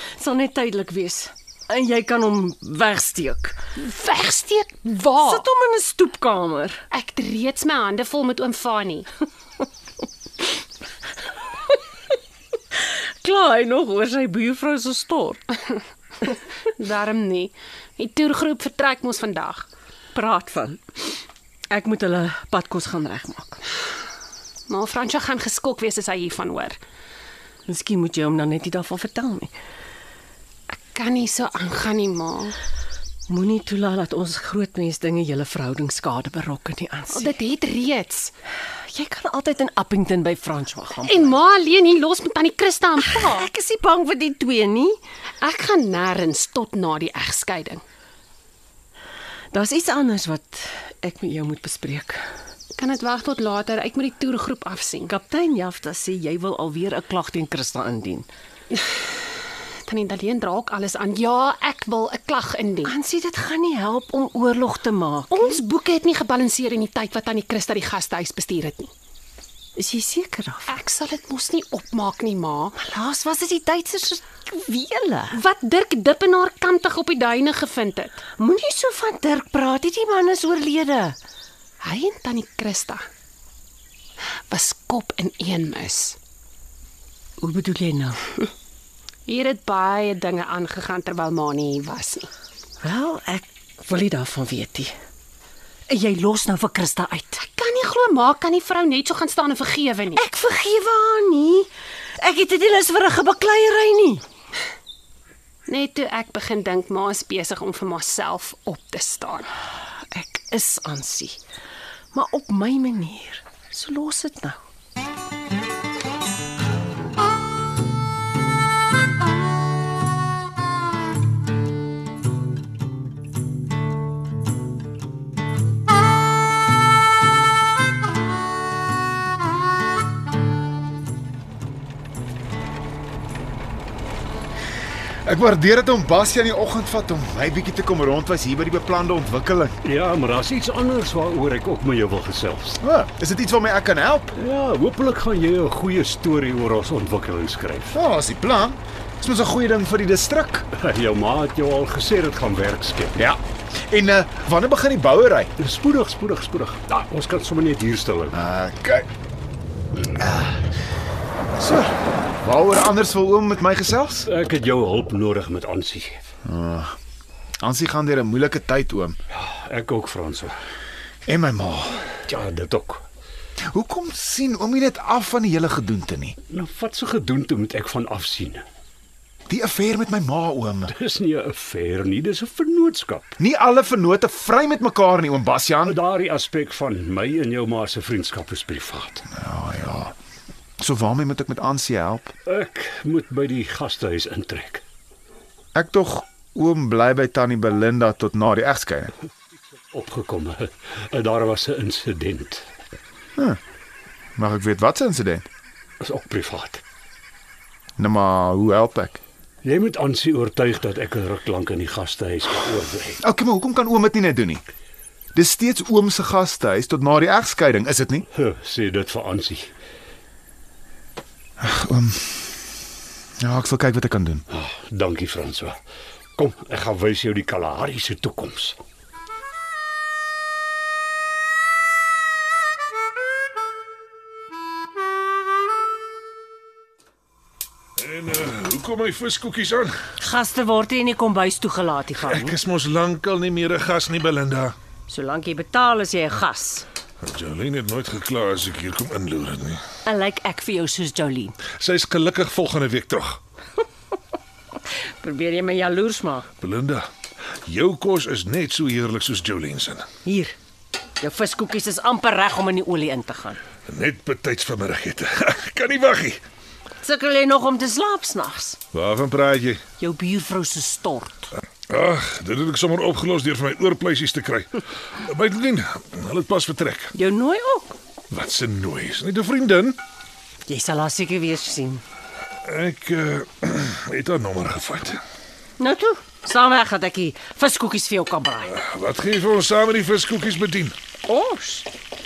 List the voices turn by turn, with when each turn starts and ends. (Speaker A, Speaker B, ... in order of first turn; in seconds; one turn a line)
Speaker A: 0.2-3.6
Speaker B: 3.8-5.5
Speaker A: 5.2-6.8
Speaker B: 6.9-9.1
Speaker A: 13.2-15.6
Speaker B: 16.8-19.7
Speaker A: 20.1-21.2
Speaker A: 21.7-23.6
Speaker B: 24.7-26.8
Speaker A: 27.7-29.5
Speaker B: 30.7-32.6
Speaker A: 33.3-37.4
Speaker B: 37.1-38.3
Speaker A: 38.9-41.4
Speaker B: 41.0-43.5
Speaker A: 43.0-45.0
Speaker B: 45.4-47.8
Speaker A: 49.5-52.2
Speaker B: 52.8-55.1
Speaker A: 55.1-58.3
Speaker B: 59.9-62.9
Speaker A: 62.9-65.6
Speaker B: 65.3-68.9
Speaker A: 69.8-70.8
Speaker B: 70.7-72.8
Speaker A: 72.8-75.4
Speaker B: 75.3-78.2
Speaker A: 78.4-81.2
Speaker B: 81.8-83.0
Speaker B: 84.5-86.2
Speaker A: 87.4-88.2
Speaker B: 89.3-92.3
Speaker A: 92.8-94.9
Speaker A: 95.9-97.4
Speaker B: 97.4-100.2
Speaker A: 100.2-101.7
Speaker A: 102.2-104.2
Speaker B: 105.7-109.5
Speaker A: 110.1-111.4
Speaker A: 112.1-114.6
Speaker C: 135.2-139.8
Speaker D: 139.8-142.8
Speaker C: 142.8-144.4
Speaker D: 144.4-147.9
Speaker C: 147.9-150.7
Speaker D: 150.8-153.2
Speaker C: 153.2-155.5
Speaker D: 155.6-158.4
Speaker C: 158.3-159.1
Speaker C: 160.2-160.5
Speaker C: 161.6-164.3
Speaker D: 164.2-166.2
Speaker C: 166.4-166.9
Speaker C: 167.6-169.2
Speaker D: 169.3-170.6
Speaker C: 171.3-172.1
Speaker D: 172.1-173.0
Speaker C: 173.7-176.4
Speaker D: 176.5-178.7
Speaker C: 179.5-180.9
Speaker D: 180.9-183.3
Speaker C: 183.4-186.0
Speaker D: 185.8-189.2
Speaker C: 189.3-190.2
Speaker C: 190.8-192.3
Speaker D: 192.4-194.8
Speaker C: 195.8-199.1
Speaker D: 199.9-202.7
Speaker C: 204.4-205.5
Speaker D: 206.0-206.8
Speaker C: 208.0-209.2
Speaker D: 209.6-213.2
Speaker C: 213.2-214.6
Speaker C: 215.3-218.3
Speaker D: 218.3-219.7
Speaker C: 221.6-222.5
Speaker C: 223.4-224.5
Speaker D: 224.5-225.8
Speaker D: 226.4-228.8
Speaker E: 238.0-240.0
Speaker A: 240.2-242.5
Speaker E: 242.2-244.8
Speaker A: 245.1-246.9
Speaker E: 247.2-249.8
Speaker A: 250.1-251.6
Speaker E: 251.8-253.4
Speaker A: 255.2-256.5
Speaker E: 256.6-257.1
Speaker E: 257.7-260.1
Speaker A: 260.2-260.6
Speaker A: 261.2-263.6
Speaker E: 263.9-266.4
Speaker A: 267.0-268.8
Speaker E: 268.9-269.8
Speaker A: 270.0-271.5
Speaker E: 271.9-277.1
Speaker A: 277.1-277.9
Speaker E: 278.3-280.0
Speaker A: 280.7-282.0
Speaker E: 282.6-285.2
Speaker A: 285.8-288.8
Speaker E: 288.7-291.0
Speaker A: 291.3-291.9